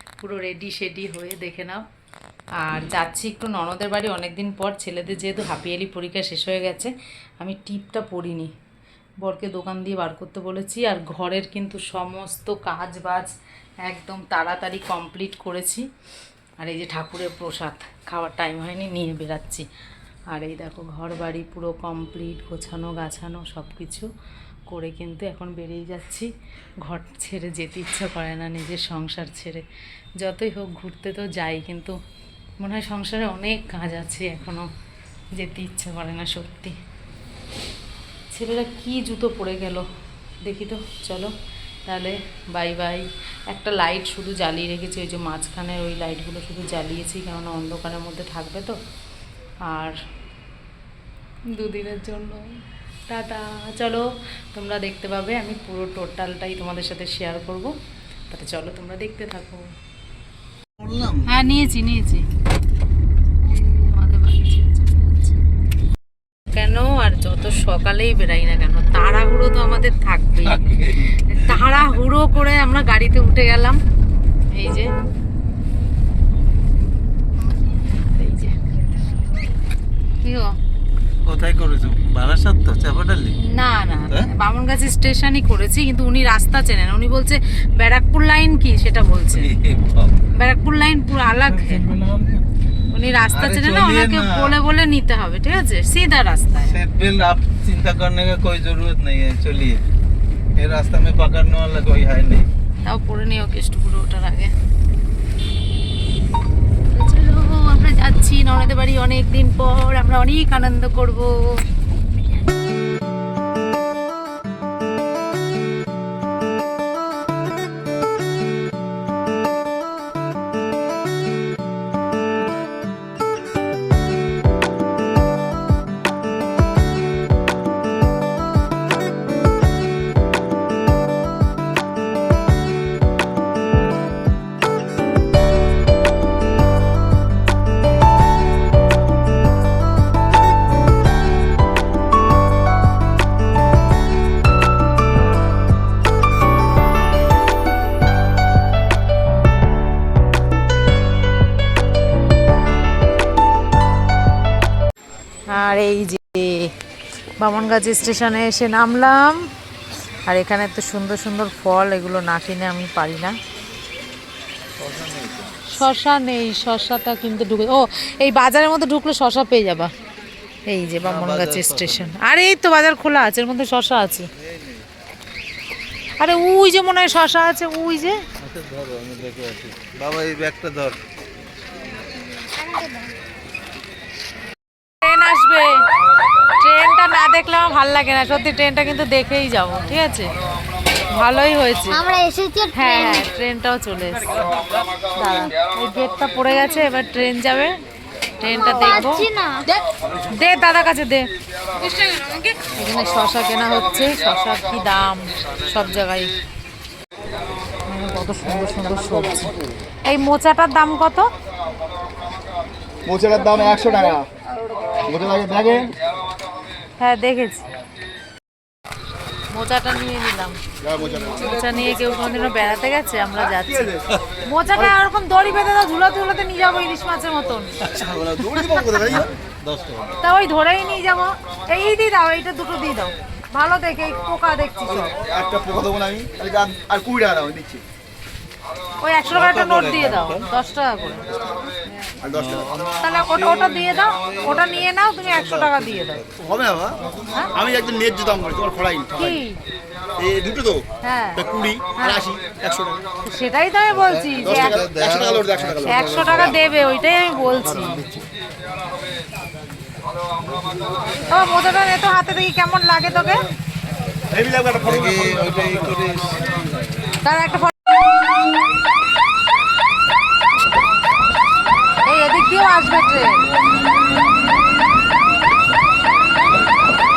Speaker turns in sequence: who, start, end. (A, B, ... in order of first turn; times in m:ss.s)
0:00.2-0:01.8 A
0:02.6-0:08.5 A
0:09.2-0:15.9 A
0:16.6-0:19.6 A
0:20.3-0:24.1 A
0:24.7-0:29.6 A
0:30.2-0:32.0 A
0:32.6-0:34.7 A
0:35.3-0:36.8 A
0:38.3-0:39.8 A
0:40.4-0:41.3 A
0:41.8-0:48.8 A
0:49.6-0:50.0 A
0:51.5-0:52.5 A
0:53.1-0:57.8 A
0:58.3-0:59.7 A
1:00.8-1:01.3 B
1:01.1-1:02.3 A
1:03.4-1:05.4 A
1:06.5-1:13.8 A
1:10.5-1:11.1 B
1:14.5-1:14.9 A
1:17.4-1:18.6 A
1:20.2-1:20.6 A
1:21.2-1:23.4 B
1:23.4-1:29.5 A
1:29.4-1:30.2 B
1:30.3-1:32.0 A
1:31.5-1:32.4 B
1:32.9-1:36.8 A
1:33.3-1:34.5 B
1:36.7-1:39.8 B
1:40.6-1:42.5 B
1:42.8-1:44.5 A
1:46.9-1:51.6 A
2:35.5-2:36.7 A
2:37.4-2:39.5 A
2:40.2-2:43.4 A
2:44.8-2:45.6 B
2:45.7-2:49.9 A
2:50.7-2:54.3 A
2:51.0-2:52.1 B
2:54.4-2:54.8 B
2:56.2-2:58.2 A
2:58.4-3:01.0 B
3:02.4-3:03.2 C
3:05.0-3:05.9 A
3:06.5-3:10.3 A
3:11.1-3:12.0 A
3:11.9-3:13.2 C
3:12.7-3:14.4 A
3:15.2-3:17.8 A
3:18.4-3:26.3 A
3:18.6-3:19.6 C
3:27.9-3:31.3 A
3:33.0-3:34.3 D
3:35.0-3:36.0 D
3:37.0-3:37.6 A
3:39.5-3:47.8 A
3:40.8-3:41.7 D
3:47.9-3:49.3 D
3:47.9-3:48.4 B
3:49.1-3:50.1 B
3:50.2-3:55.1 A
3:55.3-3:57.8 D
3:59.0-4:01.3 A
3:59.3-4:00.5 B
4:02.2-4:02.7 D
4:02.3-4:04.6 B
4:03.0-4:06.2 A
4:05.3-4:06.3 B
4:06.4-4:07.0 D
4:07.5-4:09.4 D
4:09.1-4:09.6 A
4:10.2-4:10.8 D
4:11.0-4:11.4 A
4:11.4-4:13.0 D
4:12.0-4:12.3 A
4:13.2-4:14.9 A
4:14.1-4:16.4 B
4:14.4-4:16.5 D
4:15.8-4:18.0 A
4:21.2-4:23.4 A
4:24.3-4:25.6 D
4:24.9-4:26.8 B
4:27.2-4:27.9 A
4:32.0-4:33.4 A